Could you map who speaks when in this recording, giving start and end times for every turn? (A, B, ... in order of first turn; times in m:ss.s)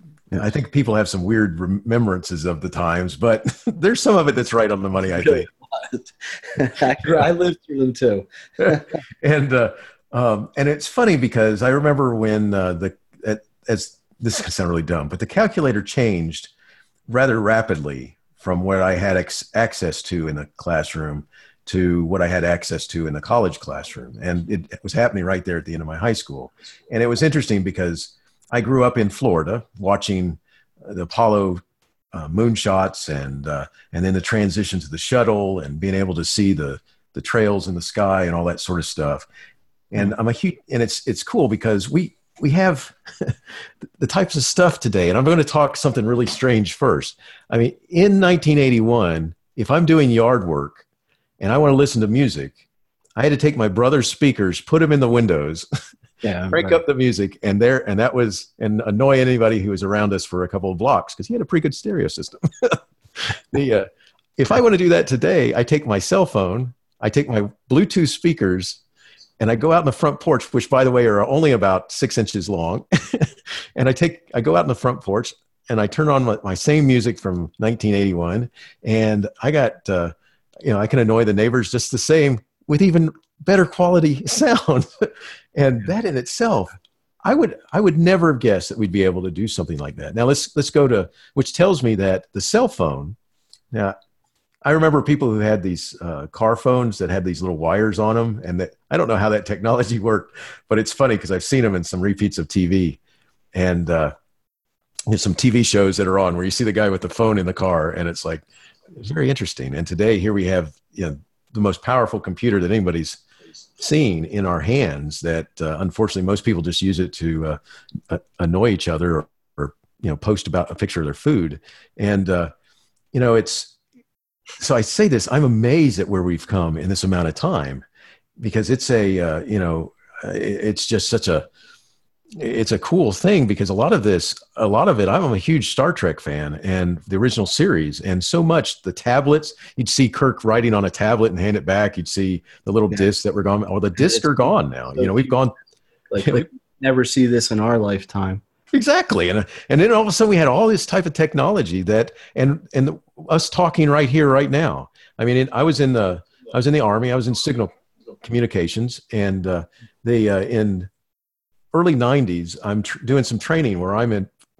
0:00.3-0:05.5 A
0:05.1-0:09.0 B
0:08.6-0:16.5 A
0:17.1-0:39.3 A
0:39.9-0:50.8 A
0:51.4-0:52.6 A
0:53.2-0:55.7 A
0:56.2-0:56.8 B
0:56.5-1:08.8 A
1:09.4-1:26.7 A
1:27.2-1:33.2 A
1:34.6-1:43.0 A
1:43.5-1:44.1 A
1:45.1-1:53.2 A
1:53.8-1:57.6 A
1:58.1-2:02.5 A
2:03.1-2:03.8 A
2:04.6-2:07.8 A
2:08.4-2:11.5 A
2:12.3-2:25.5 A
2:24.0-2:25.4 B
2:26.1-2:28.4 B
2:26.2-2:26.4 A
2:28.7-2:40.9 A
2:41.7-2:44.3 A